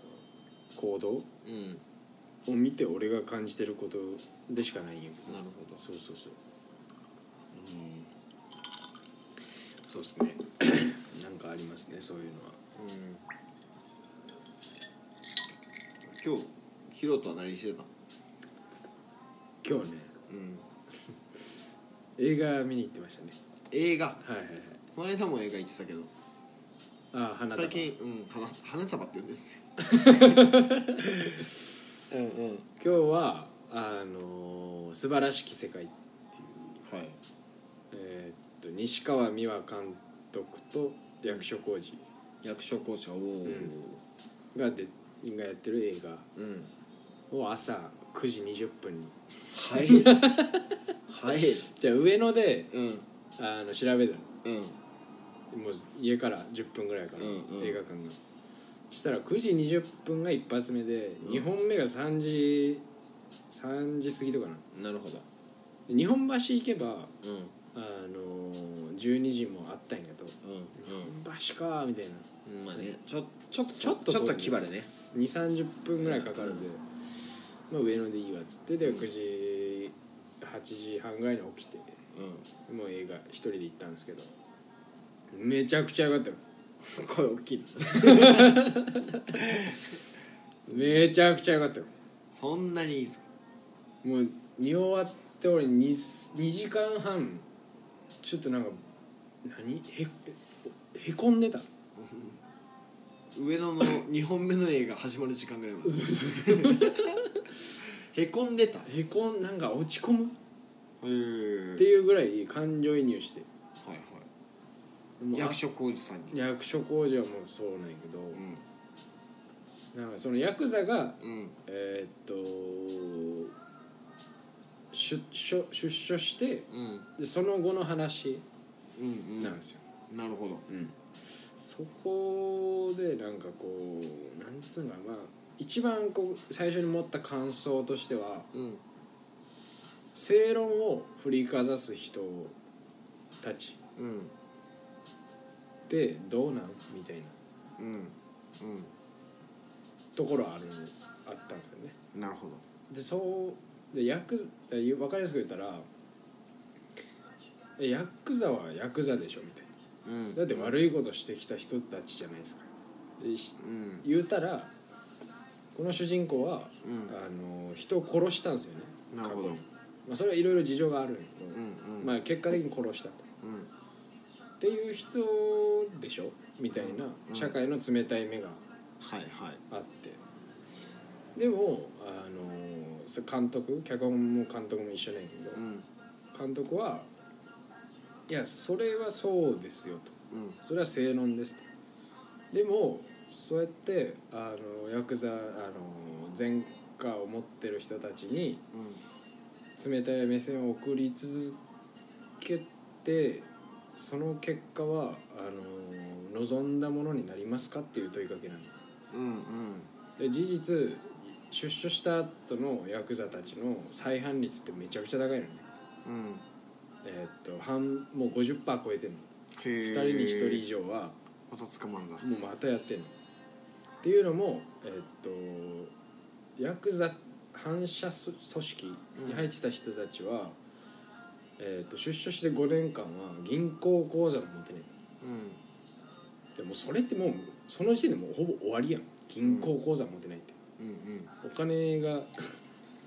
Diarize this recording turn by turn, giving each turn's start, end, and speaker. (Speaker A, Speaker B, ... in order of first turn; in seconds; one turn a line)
Speaker A: 0.7-1.3
Speaker B: 1.4-1.8
Speaker A: 2.5-6.4
Speaker B: 5.3-5.8
Speaker A: 7.5-8.1
Speaker A: 9.8-12.6
Speaker B: 12.8-13.2
Speaker B: 16.1-17.9
Speaker A: 19.6-20.1
Speaker B: 20.3-20.6
Speaker A: 22.2-23.4
Speaker B: 23.7-24.2
Speaker A: 24.2-24.8
Speaker B: 24.9-26.1
Speaker A: 27.1-27.9
Speaker B: 27.5-30.4
Speaker A: 29.8-31.1
Speaker B: 31.0-31.4
Speaker B: 32.1-32.7
Speaker A: 32.8-36.8
Speaker B: 36.8-37.2
Speaker A: 37.9-42.0
Speaker B: 42.4-44.0
Speaker A: 43.4-43.8
Speaker A: 44.5-46.2
Speaker B: 46.4-46.7
Speaker A: 47.3-49.1
Speaker B: 49.5-50.3
Speaker A: 49.7-50.7
Speaker B: 51.1-51.6
Speaker A: 51.7-52.7
Speaker B: 52.7-53.1
Speaker A: 53.4-54.3
Speaker B: 54.4-54.8
Speaker A: 55.5-58.2
Speaker B: 57.2-57.8
Speaker A: 58.9-62.8
Speaker A: 63.5-64.6
Speaker B: 64.7-65.2
Speaker A: 65.9-67.1
Speaker B: 67.2-67.5
Speaker A: 67.7-72.9
Speaker B: 70.4-71.2
Speaker B: 72.4-74.9
Speaker A: 73.8-76.8
Speaker B: 76.0-76.7
Speaker A: 77.7-81.9
Speaker B: 78.8-79.1
Speaker B: 82.1-82.5
Speaker A: 82.7-84.3
Speaker A: 85.3-86.4
Speaker B: 86.8-88.7
Speaker A: 87.9-89.2
Speaker B: 89.3-89.8
Speaker B: 90.7-91.1
Speaker A: 90.7-91.9
Speaker B: 92.3-93.2
Speaker A: 94.0-97.5
Speaker A: 98.2-98.8
Speaker A: 99.4-101.7
Speaker B: 102.0-102.4
Speaker B: 103.3-107.1
Speaker A: 105.8-107.4
Speaker B: 108.0-108.9
Speaker A: 108.8-110.3
Speaker B: 111.0-111.9
Speaker A: 111.8-113.5
Speaker B: 113.8-114.3
Speaker A: 115.2-115.6
Speaker B: 115.3-116.4
Speaker A: 116.3-118.4
Speaker B: 118.3-118.6
Speaker A: 119.9-123.5
Speaker B: 121.2-121.5
Speaker A: 124.9-128.4
Speaker B: 126.7-127.1
Speaker B: 128.9-129.6
Speaker A: 129.4-129.8
Speaker B: 130.1-130.6
Speaker A: 130.7-130.9
Speaker A: 131.6-138.5
Speaker B: 138.5-138.8
Speaker A: 140.1-142.5
Speaker A: 143.4-143.8
Speaker B: 143.9-144.3
Speaker A: 145.9-147.3
Speaker B: 147.8-148.9
Speaker A: 150.2-152.0
Speaker B: 152.1-152.6
Speaker A: 152.9-155.9
Speaker A: 157.8-159.7
Speaker B: 160.0-160.8
Speaker A: 160.3-162.7
Speaker A: 163.2-164.7
Speaker B: 163.6-164.0
Speaker A: 165.7-173.2
Speaker B: 166.8-167.2
Speaker B: 169.1-169.6
Speaker B: 171.5-172.1
Speaker B: 173.4-173.7
Speaker A: 174.6-178.6
Speaker B: 176.7-177.6
Speaker B: 179.0-179.6
Speaker A: 179.7-180.2
Speaker A: 181.3-185.6
Speaker B: 185.5-185.9
Speaker A: 186.3-187.1
Speaker A: 188.3-191.6
Speaker B: 190.3-190.6
Speaker A: 192.5-198.6
Speaker B: 198.7-199.0
Speaker A: 199.8-201.6
Speaker A: 202.4-208.7
Speaker B: 209.1-209.9
Speaker A: 210.2-215.6
Speaker B: 216.0-216.4
Speaker A: 217.0-221.2
Speaker B: 219.6-220.7
Speaker B: 221.5-222.2
Speaker A: 222.2-223.1
Speaker A: 224.0-225.9
Speaker A: 226.6-230.6
Speaker B: 229.2-229.5
Speaker A: 231.6-234.9
Speaker B: 235.2-235.6
Speaker A: 236.5-240.6
Speaker B: 239.4-239.7
Speaker B: 240.8-241.3
Speaker A: 241.4-242.5